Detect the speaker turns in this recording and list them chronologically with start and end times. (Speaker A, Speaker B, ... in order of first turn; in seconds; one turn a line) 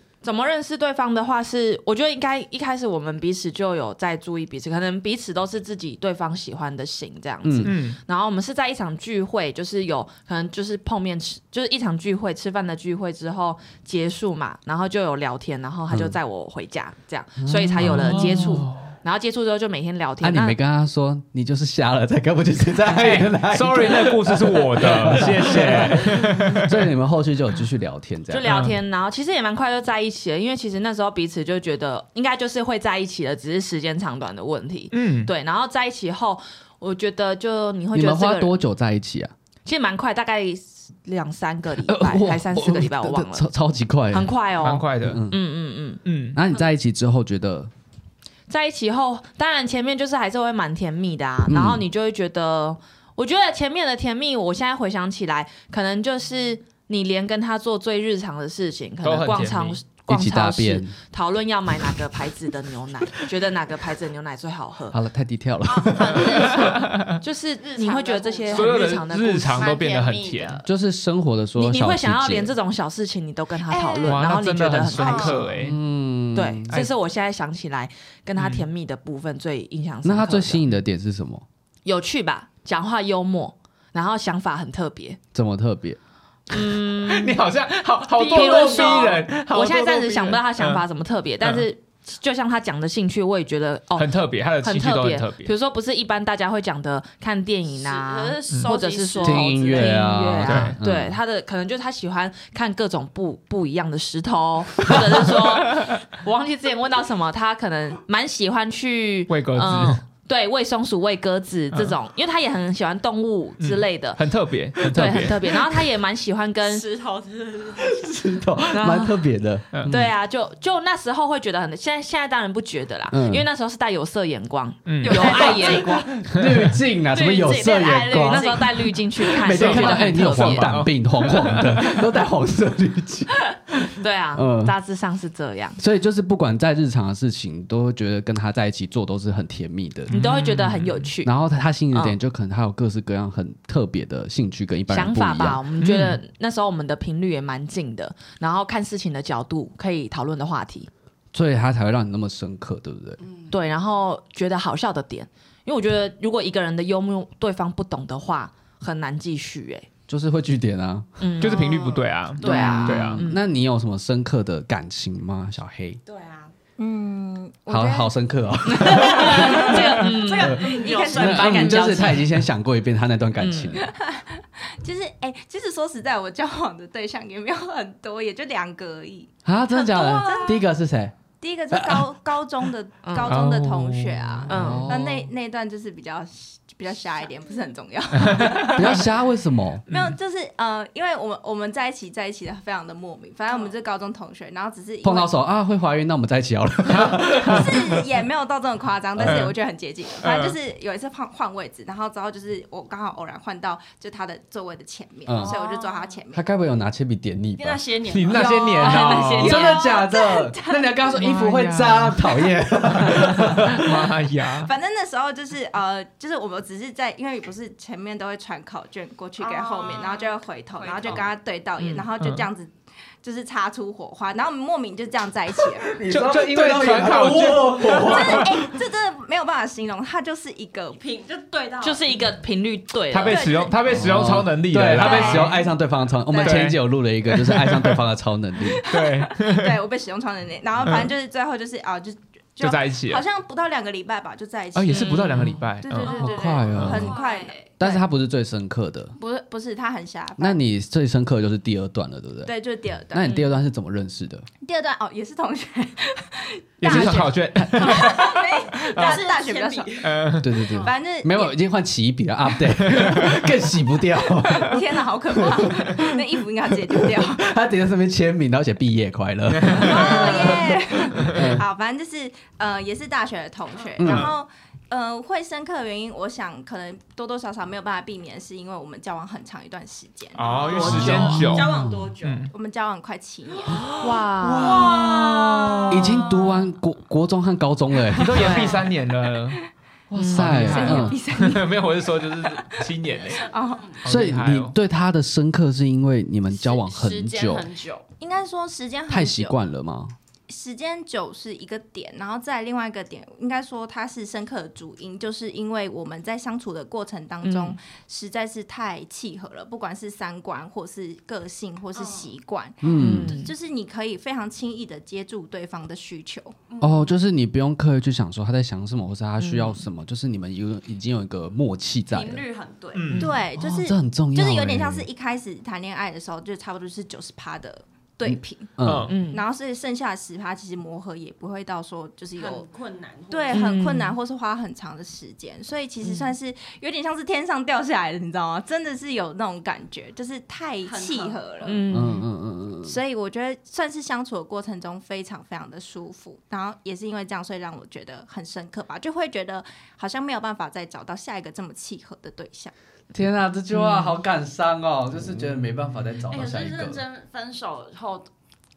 Speaker A: 0.2-20.6
Speaker B: 7.4-7.7
Speaker C: 7.6-8.0
Speaker B: 15.9-16.1
Speaker B: 17.4-18.7
Speaker C: 17.8-18.9
Speaker B: 20.2-28.5
Speaker C: 22.9-26.9
Speaker A: 28.3-38.6
Speaker C: 28.4-28.8
Speaker C: 34.9-35.3
Speaker B: 37.9-39.3
Speaker A: 39.6-43.5
Speaker B: 41.8-44.4
Speaker A: 44.1-46.0
Speaker C: 44.6-45.2
Speaker B: 45.0-45.4
Speaker C: 46.0-46.4
Speaker B: 46.3-47.7
Speaker A: 48.5-65.0
Speaker B: 51.5-51.8
Speaker C: 59.0-59.8
Speaker B: 60.1-60.9
Speaker B: 64.9-66.7
Speaker D: 65.6-66.9
Speaker C: 66.3-67.2
Speaker A: 67.2-69.7
Speaker D: 67.6-69.0
Speaker C: 68.5-70.6
Speaker D: 69.5-70.7
Speaker B: 70.6-72.5
Speaker A: 71.5-75.5
Speaker D: 73.7-74.2
Speaker C: 74.0-75.8
Speaker D: 74.9-75.3
Speaker B: 75.6-76.8
Speaker A: 76.3-80.6
Speaker C: 78.4-78.7
Speaker B: 80.0-81.4
Speaker A: 81.8-85.2
Speaker B: 85.3-86.0
Speaker A: 86.5-87.4
Speaker C: 87.0-90.8
Speaker D: 88.2-89.2
Speaker A: 88.2-114.2
Speaker C: 91.4-91.7
Speaker C: 93.9-95.5
Speaker D: 97.7-100.0
Speaker B: 99.2-101.2
Speaker C: 100.4-100.8
Speaker C: 109.3-110.0
Speaker C: 113.6-115.4
Speaker B: 114.8-115.4
Speaker A: 114.8-116.8
Speaker D: 116.6-118.2
Speaker B: 117.8-120.1
Speaker A: 118.7-119.2
Speaker A: 119.8-126.1
Speaker B: 123.1-123.5
Speaker C: 124.8-125.3
Speaker D: 125.0-126.1
Speaker B: 125.6-128.6
Speaker C: 126.3-126.8
Speaker D: 127.1-128.9
Speaker A: 128.2-130.8
Speaker B: 129.3-134.7
Speaker C: 129.5-132.1
Speaker A: 134.0-135.8
Speaker B: 135.8-140.1
Speaker C: 140.1-141.1
Speaker A: 140.1-141.3
Speaker B: 141.2-145.6
Speaker A: 141.9-142.2
Speaker A: 144.9-150.9
Speaker C: 145.8-146.2
Speaker B: 151.3-153.2
Speaker D: 153.2-153.5
Speaker A: 153.5-159.9
Speaker B: 160.1-161.2
Speaker A: 161.2-161.8
Speaker C: 161.4-163.2
Speaker D: 161.5-162.9
Speaker A: 162.4-163.4
Speaker B: 162.4-166.0
Speaker D: 166.1-166.5
Speaker E: 166.8-168.1
Speaker B: 167.7-169.8
Speaker A: 168.7-172.3
Speaker E: 168.9-169.7
Speaker D: 169.0-172.2
Speaker B: 170.4-173.9
Speaker E: 170.5-171.8
Speaker A: 173.4-173.8
Speaker E: 173.7-179.3
Speaker B: 179.4-181.1
Speaker D: 179.7-180.6
Speaker E: 179.9-180.6
Speaker E: 181.4-189.1
Speaker B: 181.7-182.1
Speaker A: 183.0-183.4
Speaker C: 183.2-184.8
Speaker B: 184.4-185.3
Speaker A: 184.5-184.9
Speaker D: 187.4-187.7
Speaker C: 188.1-188.8
Speaker B: 188.7-189.8
Speaker C: 189.9-190.2
Speaker E: 189.9-195.3
Speaker B: 195.0-198.0
Speaker E: 197.3-206.4
Speaker B: 199.2-199.5
Speaker C: 199.2-199.5
Speaker C: 200.2-200.6
Speaker B: 205.3-205.6
Speaker D: 205.3-206.2
Speaker B: 206.3-214.1
Speaker D: 207.6-208.8
Speaker C: 208.1-209.7
Speaker E: 208.3-211.5
Speaker A: 208.8-209.9
Speaker C: 211.2-212.4
Speaker C: 212.9-214.7
Speaker E: 213.8-226.0
Speaker D: 219.4-221.3
Speaker A: 221.8-222.1
Speaker C: 222.2-222.5
Speaker B: 225.8-228.5
Speaker C: 226.1-228.5
Speaker E: 227.8-231.0
Speaker D: 230.9-232.2
Speaker A: 231.8-233.5
Speaker C: 233.1-235.6
Speaker E: 233.3-234.0
Speaker B: 233.9-238.8
Speaker E: 235.0-235.7
Speaker E: 236.3-236.7
Speaker C: 236.4-238.0
Speaker E: 238.6-248.0
Speaker C: 238.8-239.8
Speaker C: 240.8-241.1
Speaker C: 242.6-243.2
Speaker C: 244.7-247.1
Speaker A: 244.9-245.6
Speaker D: 246.0-247.7
Speaker B: 246.1-247.1
Speaker B: 247.8-249.2
Speaker E: 249.2-250.6
Speaker B: 250.4-252.5
Speaker E: 252.4-253.3
Speaker B: 253.1-254.5
Speaker E: 254.6-260.1
Speaker C: 256.8-259.2
Speaker B: 256.9-257.7
Speaker D: 257.8-260.9
Speaker C: 260.0-260.5
Speaker B: 260.4-264.8
Speaker E: 260.8-261.5
Speaker C: 262.8-263.4
Speaker E: 264.4-267.4
Speaker B: 265.4-271.6
Speaker C: 269.6-270.5
Speaker E: 269.8-280.6
Speaker C: 271.1-271.5
Speaker B: 274.0-274.3
Speaker C: 274.0-274.3
Speaker C: 280.3-282.5
Speaker D: 280.4-282.5
Speaker A: 280.7-281.5
Speaker B: 280.9-282.1
Speaker E: 282.5-283.9
Speaker D: 283.6-286.2
Speaker A: 284.0-285.1
Speaker C: 284.7-285.7
Speaker B: 285.9-288.6
Speaker C: 288.1-289.6
Speaker E: 288.4-288.9
Speaker A: 288.4-288.8
Speaker B: 290.1-291.2
Speaker A: 290.1-291.1
Speaker C: 290.3-293.5
Speaker E: 290.5-292.9
Speaker D: 293.2-294.0
Speaker E: 293.4-294.0
Speaker C: 294.0-294.7
Speaker B: 294.1-297.7
Speaker D: 296.5-298.1
Speaker E: 298.2-299.6
Speaker B: 299.1-300.1
Speaker E: 300.5-316.6
Speaker A: 307.4-307.8
Speaker D: 311.9-312.3
Speaker B: 312.8-313.4
Speaker A: 312.9-313.5
Speaker D: 316.7-317.2
Speaker B: 316.8-322.4
Speaker A: 319.4-319.8
Speaker D: 322.1-323.2
Speaker C: 322.9-323.3
Speaker E: 323.2-328.8
Speaker B: 323.6-325.1
Speaker B: 328.2-329.1
Speaker C: 328.8-329.2
Speaker A: 329.1-329.4
Speaker E: 329.3-332.7
Speaker D: 332.4-333.7
Speaker E: 333.3-341.8
Speaker A: 333.5-334.2
Speaker A: 336.0-336.3
Speaker D: 340.8-341.7
Speaker A: 341.6-342.2
Speaker B: 341.9-343.0
Speaker E: 342.8-352.7
Speaker B: 353.1-357.0
Speaker A: 353.7-354.1
Speaker D: 356.3-358.3